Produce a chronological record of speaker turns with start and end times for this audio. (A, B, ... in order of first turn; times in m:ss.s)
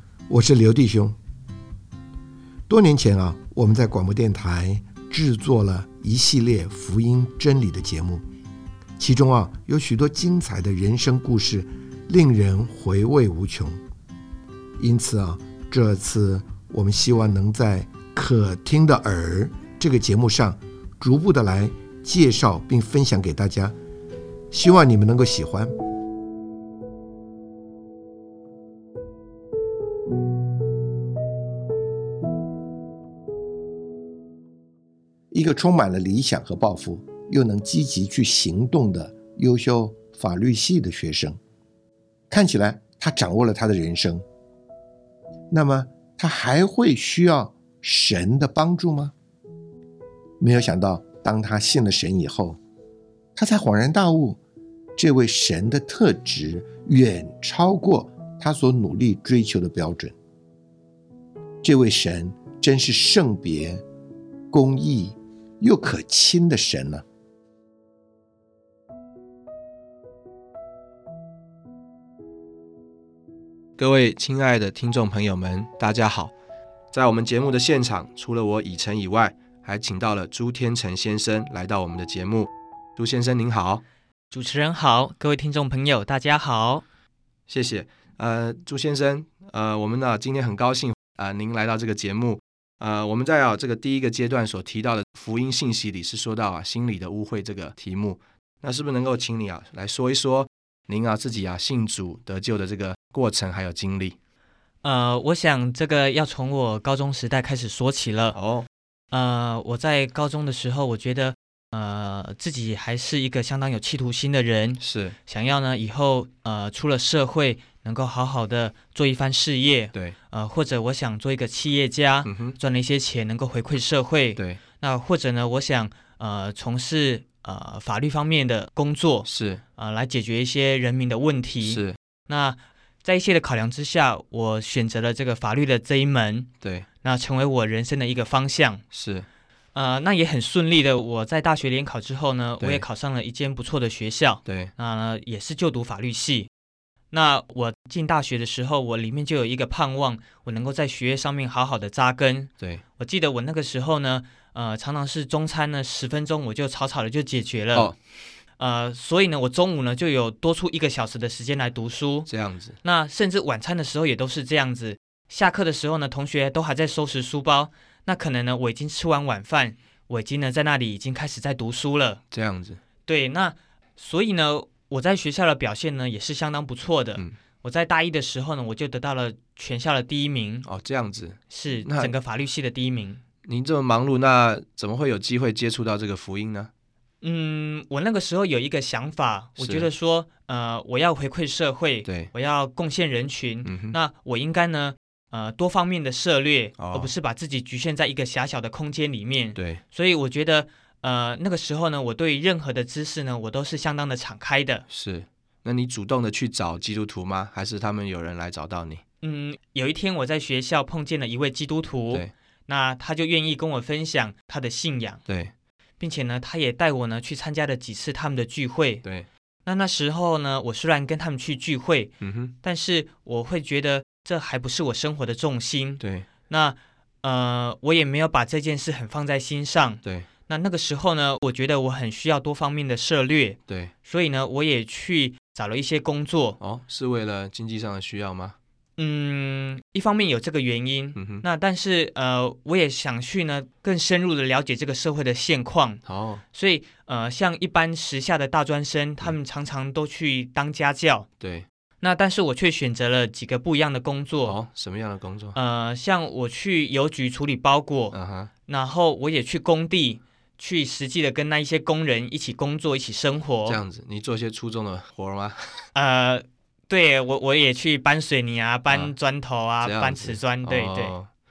0:00.3-0:01.2 A
0:02.7-0:08.2 A
0:09.0-0:13.8 A
0:14.8-0:23.8 A
0:24.5-0:25.7 A
0:35.3-0:41.4 A
0:42.3-0:44.2 A
0:45.5-0:49.1 A
0:50.4-0:52.6 A
0:53.3-0:54.4 A
0:55.0-1:00.2 A
1:01.6-1:03.8 A
1:04.5-1:07.0 A
1:13.8-1:16.3 B
1:16.9-1:23.8 B
1:24.3-1:26.8 C
1:27.5-1:44.2 B
1:44.8-1:48.4 C
1:48.3-1:48.7 B
1:49.1-2:16.5 C
1:54.8-1:55.2 B
2:02.2-2:02.6 B
2:09.2-2:09.6 B
2:11.6-2:12.0 B
2:16.6-2:16.8 B
2:17.0-2:18.8 C
2:18.9-2:19.3 B
2:19.7-2:26.5 C
2:22.6-2:22.8 B
2:24.4-2:24.7 B
2:27.1-2:37.9 C
2:38.6-2:42.3 C
2:42.3-2:42.8 B
2:42.8-2:52.2 C
2:52.3-2:52.8 B
2:53.0-3:00.7 C
3:00.6-3:02.1 B
3:01.5-3:03.2 C
3:03.4-3:06.7 B
3:07.2-3:24.8 C
3:09.6-3:09.9 B
3:12.0-3:12.3 B
3:13.6-3:14.0 B
3:16.8-3:17.1 B
3:19.6-3:19.8 B
3:24.9-3:29.0 B
3:29.2-3:35.2 C
3:35.3-3:35.5 B
3:36.0-3:39.0 C
3:39.7-3:56.6 C
3:42.2-3:42.5 B
3:46.0-3:46.3 B
3:56.6-3:58.6 B
3:59.0-4:11.3 C
4:01.2-4:01.4 B
4:06.0-4:06.4 B
4:11.4-4:11.7 B
4:12.0-4:14.6 C
4:14.4-4:15.6 B
4:15.5-4:23.8 C
4:18.1-4:18.5 B
4:23.7-4:25.9 B
4:25.9-4:31.2 C
4:28.9-4:29.1 B
4:29.8-4:31.3 B